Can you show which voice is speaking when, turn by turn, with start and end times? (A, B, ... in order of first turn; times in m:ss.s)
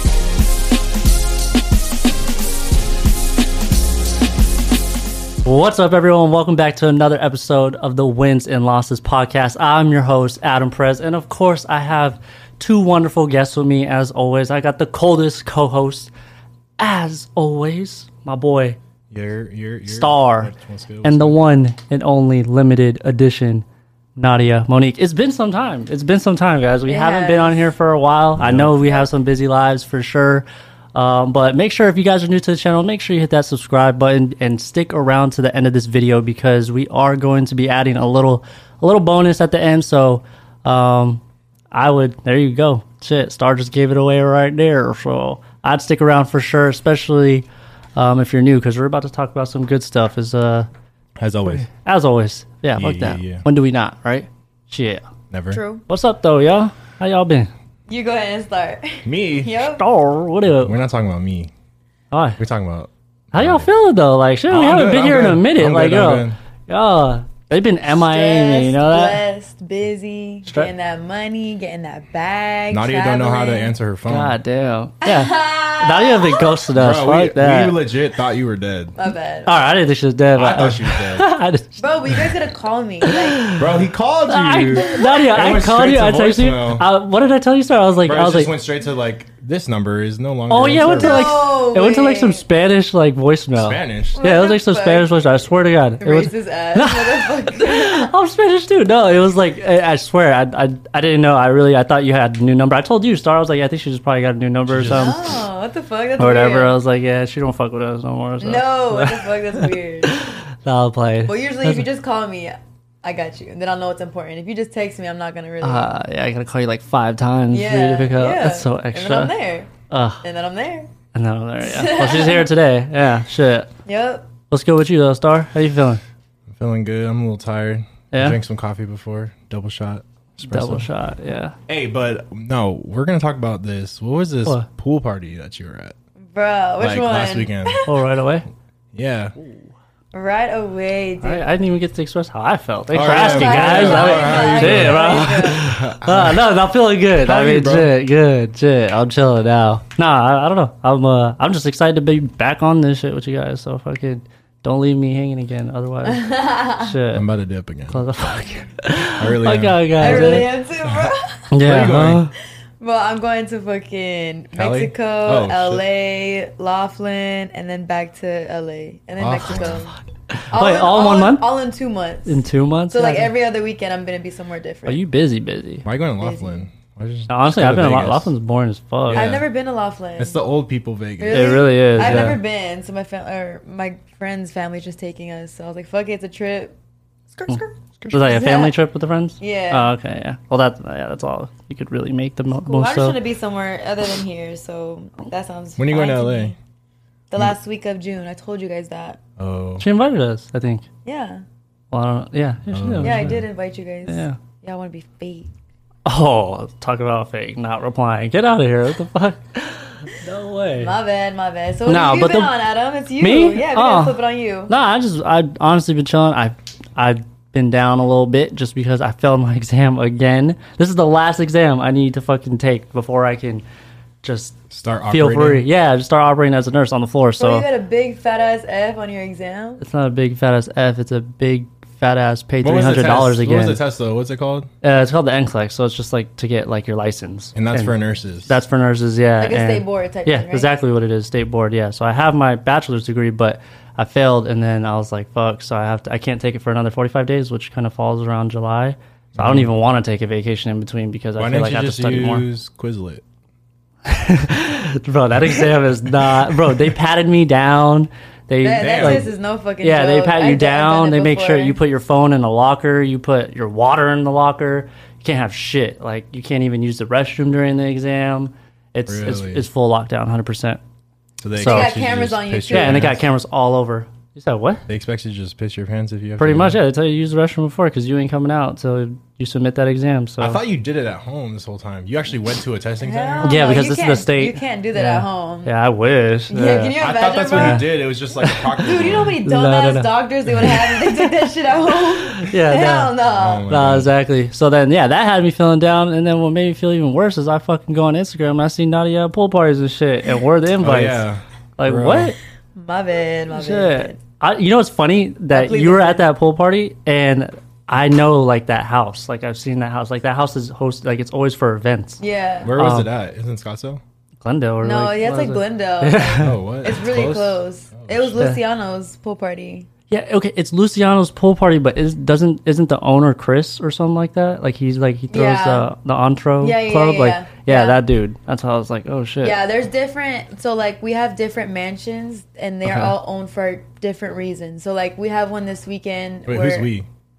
0:05.4-0:16.1 A
0:16.8-0:18.8 A
0:19.1-0:21.4 B
0:19.9-0:20.5 A
0:21.0-0:23.6 A
0:24.2-0:50.7 A
0:26.9-0:27.7 C
0:28.4-0:28.7 B
0:51.2-0:51.7 B
0:51.4-0:55.0 A
0:52.7-0:53.4 B
0:55.3-0:55.6 B
0:55.5-0:55.8 C
0:55.9-0:57.5 A
0:57.9-0:59.8 C
0:59.0-0:59.5 B
0:59.8-1:00.8 A
1:00.6-1:01.5 B
1:02.1-1:02.4 A
1:02.4-1:03.7 B
1:03.3-1:09.2 A
1:04.5-1:06.4 B
1:07.9-1:13.7 C
1:10.4-1:10.7 A
1:12.7-1:14.4 B
1:14.0-1:17.8 A
1:15.0-1:16.6 C
1:16.7-1:19.0 B
1:19.0-1:19.6 C
1:19.4-1:22.3 A
1:20.3-1:21.3 B
1:21.8-1:23.5 C
1:23.0-1:23.6 A
1:23.6-1:26.9 B
1:24.3-1:28.5 A
1:24.8-1:25.1 C
1:28.0-1:31.3 B
1:30.5-1:45.3 A
1:30.8-1:32.4 C
1:33.6-1:34.2 B
1:34.1-1:35.1 C
1:36.0-1:38.1 C
1:44.7-1:45.2 B
1:44.9-1:46.7 C
1:46.2-1:51.8 A
1:48.4-1:50.2 C
1:51.2-1:55.9 C
1:55.6-1:59.3 A
1:57.5-1:59.7 C
1:59.9-2:00.2 A
2:00.2-2:00.9 C
2:01.1-2:03.7 A
2:01.6-2:02.5 C
2:03.8-2:04.3 C
2:04.5-2:06.0 A
2:06.5-2:10.9 B
2:08.1-2:08.4 A
2:10.4-2:11.6 A
2:11.7-2:16.0 B
2:16.3-2:17.9 C
2:16.8-2:17.8 B
2:17.8-2:18.5 A
2:18.9-2:19.3 B
2:20.1-2:21.4 C
2:21.2-2:37.2 A
2:22.9-2:26.4 B
2:23.0-2:25.7 C
2:27.2-2:27.9 B
2:36.0-2:37.0 C
2:37.1-2:38.3 B
2:37.9-2:40.5 A
2:39.2-2:41.1 B
2:40.0-2:41.5 C
2:41.5-2:42.3 A
2:41.6-2:42.3 B
2:42.8-2:49.9 C
2:44.6-2:45.8 B
2:49.2-2:49.9 B
2:50.3-2:51.4 A
2:50.5-2:55.0 C
2:52.2-2:53.3 A
2:54.8-2:55.8 A
2:55.8-2:58.3 B
2:56.2-2:56.6 C
2:57.3-2:59.3 A
2:59.0-2:59.4 B
2:59.1-3:00.4 C
3:00.2-3:02.4 B
3:01.2-3:06.7 C
3:01.3-3:02.4 A
3:07.3-3:08.8 C
3:07.5-3:13.2 A
3:09.4-3:09.9 C
3:12.6-3:16.5 C
3:15.8-3:16.5 B
3:17.3-3:19.2 C
3:19.4-3:19.8 B
3:19.8-3:20.8 A
3:21.0-3:21.4 C
3:21.9-3:23.4 A
3:22.7-3:23.4 B
3:23.0-3:25.5 C
3:24.1-3:24.4 A
3:26.0-3:31.0 A
3:30.8-3:34.7 C
3:31.8-3:32.5 A
3:33.2-3:43.6 A
3:44.2-3:44.6 A
3:44.7-3:45.6 B
3:45.1-3:47.7 A
3:47.4-3:49.8 C
3:49.8-3:53.8 A
3:52.6-3:54.7 B
3:54.8-4:12.5 A
3:57.5-3:58.6 B
3:59.4-4:00.7 C
4:09.3-4:09.7 B
4:11.4-4:13.2 B
4:14.0-4:19.3 A
4:18.6-4:21.8 C
4:18.8-4:19.3 B
4:19.8-4:30.8 A
4:29.1-4:29.6 B
4:31.4-4:33.2 B
4:31.6-4:31.9 A
4:31.6-4:33.2 C
4:32.7-4:34.8 A
4:34.9-4:36.8 B
4:36.4-4:40.6 A
4:40.4-4:43.7 B
4:43.0-4:45.7 C
4:43.4-4:47.0 A
4:46.5-4:48.0 C
4:47.0-4:49.4 B
4:47.5-4:47.9 A
4:48.4-4:48.7 A
4:48.8-4:53.7 C
4:49.4-4:50.1 A
4:50.6-4:51.3 A
4:52.2-4:53.1 A
4:53.3-4:54.1 B
4:53.7-5:01.2 A
5:00.8-5:02.3 B
5:01.8-5:02.4 A
5:02.7-5:04.2 C
5:03.5-5:12.2 A
5:05.5-5:06.3 C
5:12.2-5:12.7 C
5:12.6-5:14.0 B
5:12.8-5:13.1 A
5:14.4-5:16.5 A
5:14.8-5:19.9 C
5:16.4-5:18.3 B
5:20.1-5:29.6 A
5:25.3-5:25.9 C
5:26.6-5:28.0 C
5:29.4-5:36.9 C
5:32.8-5:33.1 A
5:36.5-5:37.1 B